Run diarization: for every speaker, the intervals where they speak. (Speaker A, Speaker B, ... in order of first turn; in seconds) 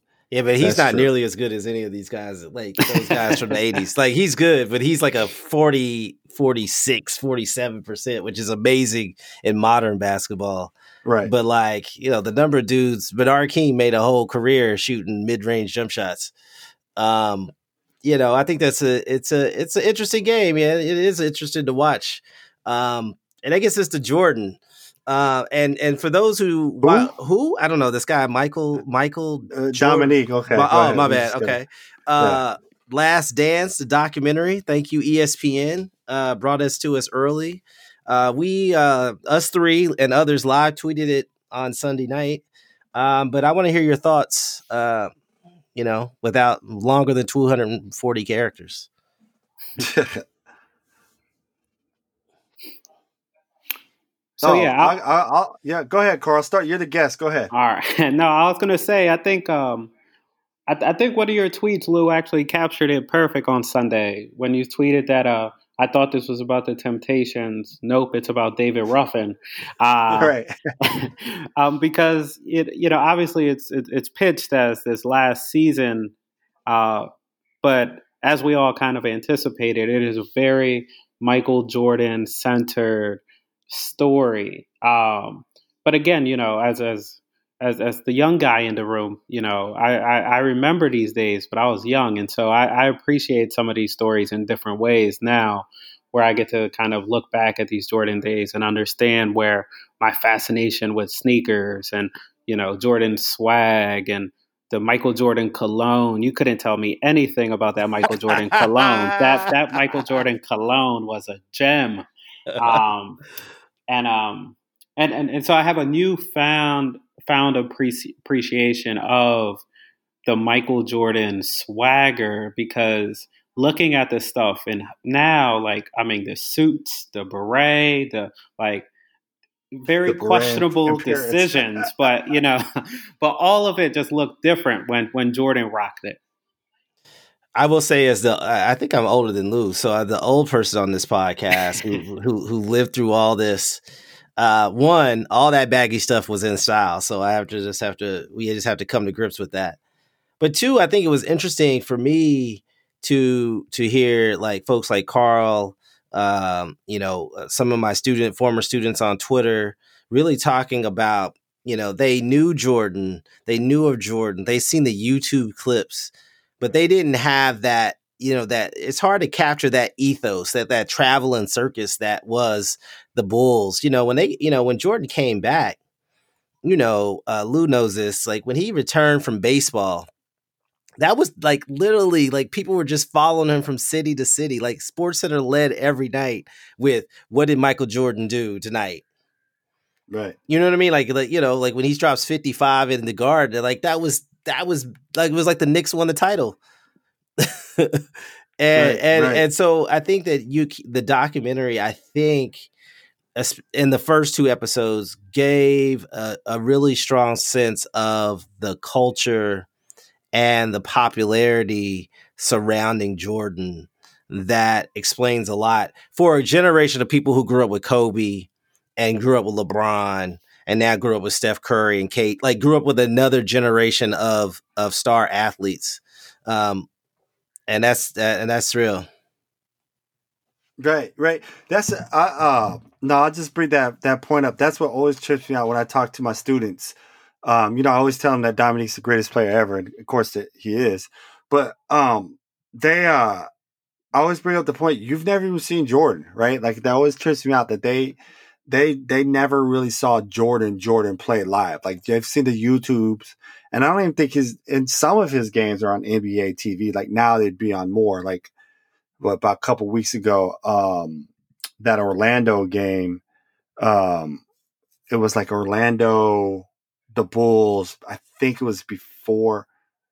Speaker A: 0.3-10.7, 11.2-16.3, 17.0-17.5, 18.0-42.4, 43.0-45.1, 45.8-48.9, 108.0-110.0, 112.5-112.8, 137.6-143.8, 144.4-149.8, 150.4-175.8, 176.6-180.1, 181.0-189.0, 190.5-196.6, 197.4-198.0, 198.6-202.7, 203.3-209.7, 210.3-226.9, 227.7-229.1
Speaker B: 0.6-1.1, 11.1-11.3, 26.8-27.1, 29.5-31.6, 49.8-50.2, 54.4-57.5, 70.1-70.5, 130.1-132.0, 190.1-190.4, 198.8-199.4, 230.8-243.5, 244.1-258.5, 259.2-261.3, 261.8-263.2, 263.8-264.4, 265.1-269.7
Speaker C: 2.8-3.6, 54.4-55.0, 57.5-59.9, 60.7-76.1, 76.7-77.1, 77.6-112.0, 112.6-113.2, 113.9-119.7, 120.3-128.9, 129.7-132.7, 133.2-136.2